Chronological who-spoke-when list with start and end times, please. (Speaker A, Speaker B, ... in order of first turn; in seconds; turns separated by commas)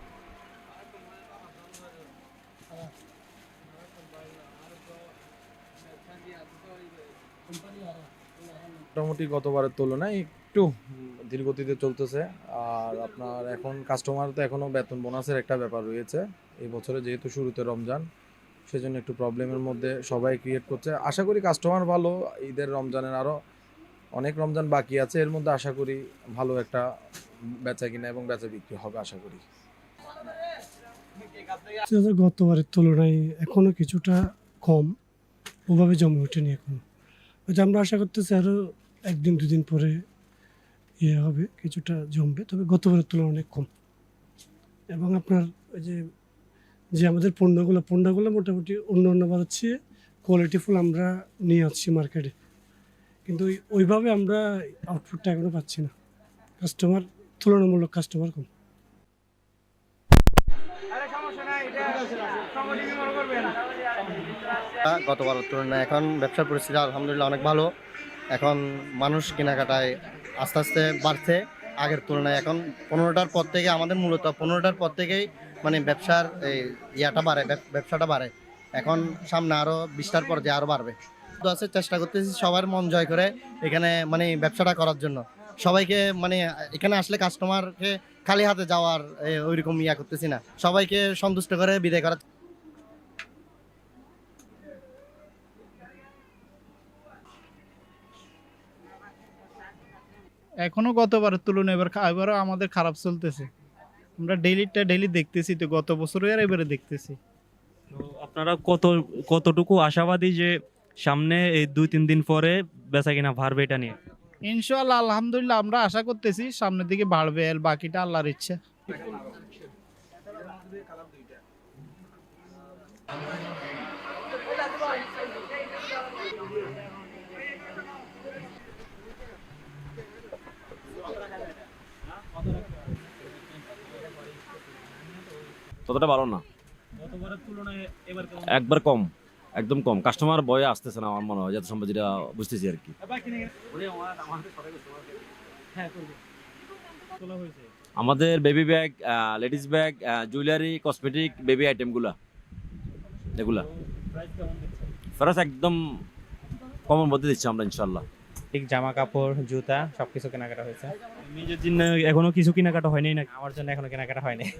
Speaker A: 8.9-10.7, Speaker A: 11.3-18.1, Speaker A: 18.7-23.4, Speaker A: 24.2-26.8, Speaker A: 27.7-29.4, Speaker B: 31.9-34.9, Speaker B: 35.7-36.8, Speaker B: 37.5-40.0, Speaker B: 41.0-43.7, Speaker B: 44.9-46.0, Speaker B: 46.9-52.3, Speaker B: 53.2-55.9, Speaker B: 56.6-58.5, Speaker C: 64.8-67.7, Speaker C: 68.3-92.2, Speaker D: 100.6-103.4, Speaker D: 104.2-107.1, Speaker E: 107.9-114.0, Speaker D: 114.5-118.5, Speaker F: 135.9-136.4, Speaker E: 137.1-137.9, Speaker F: 138.4-142.9, Speaker E: 147.2-147.6, Speaker F: 147.9-152.2, Speaker F: 153.3-153.7, Speaker E: 154.2-154.6, Speaker F: 155.2-155.8, Speaker F: 156.9-158.0, Speaker G: 158.5-160.9, Speaker E: 161.2-163.3, Speaker G: 163.3-164.5